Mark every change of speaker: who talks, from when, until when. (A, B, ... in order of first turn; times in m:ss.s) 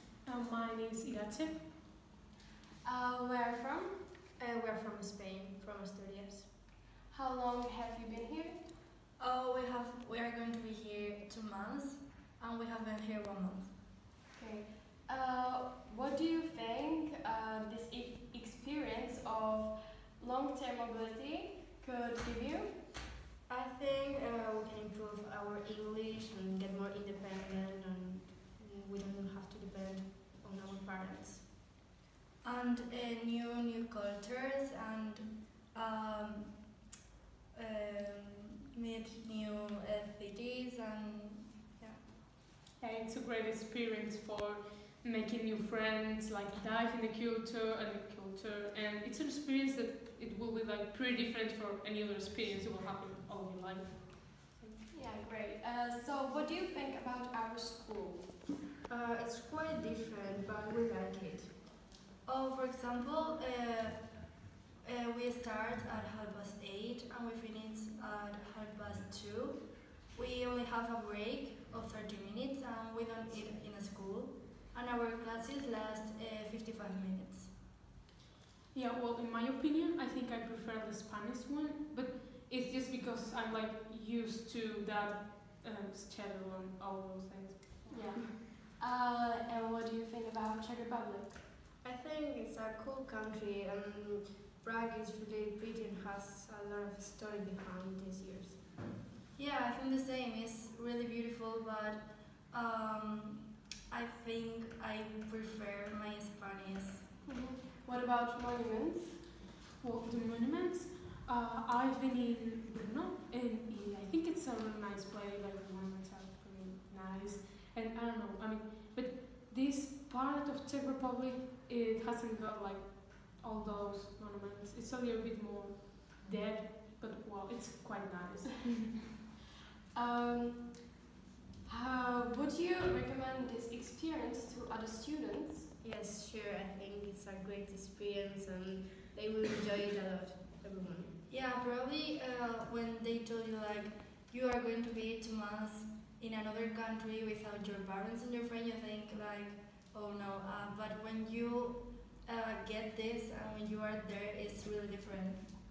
0:00.2-0:01.6 A
0:02.8-0:04.1 B
0:04.4-0:06.5 C
0:07.1-0:08.7 B
0:09.2-0:13.7 D
0:14.3-0:22.9 B
0:23.5-0:31.5 C
0:32.4-0:36.7 D
0:37.5-0:42.0 D
0:42.8-0:54.8 A
0:54.9-0:58.5 B
0:58.9-1:01.6 C
1:02.2-1:17.5 D
1:18.7-1:28.1 A
1:27.9-1:31.4 B
1:31.8-1:38.6 C
1:39.4-1:47.1 D
1:47.3-1:49.2 B
1:49.8-2:09.0 A
2:09.9-2:10.9 B
2:11.6-2:15.7 B
2:15.8-2:21.1 C
2:21.3-2:35.4 D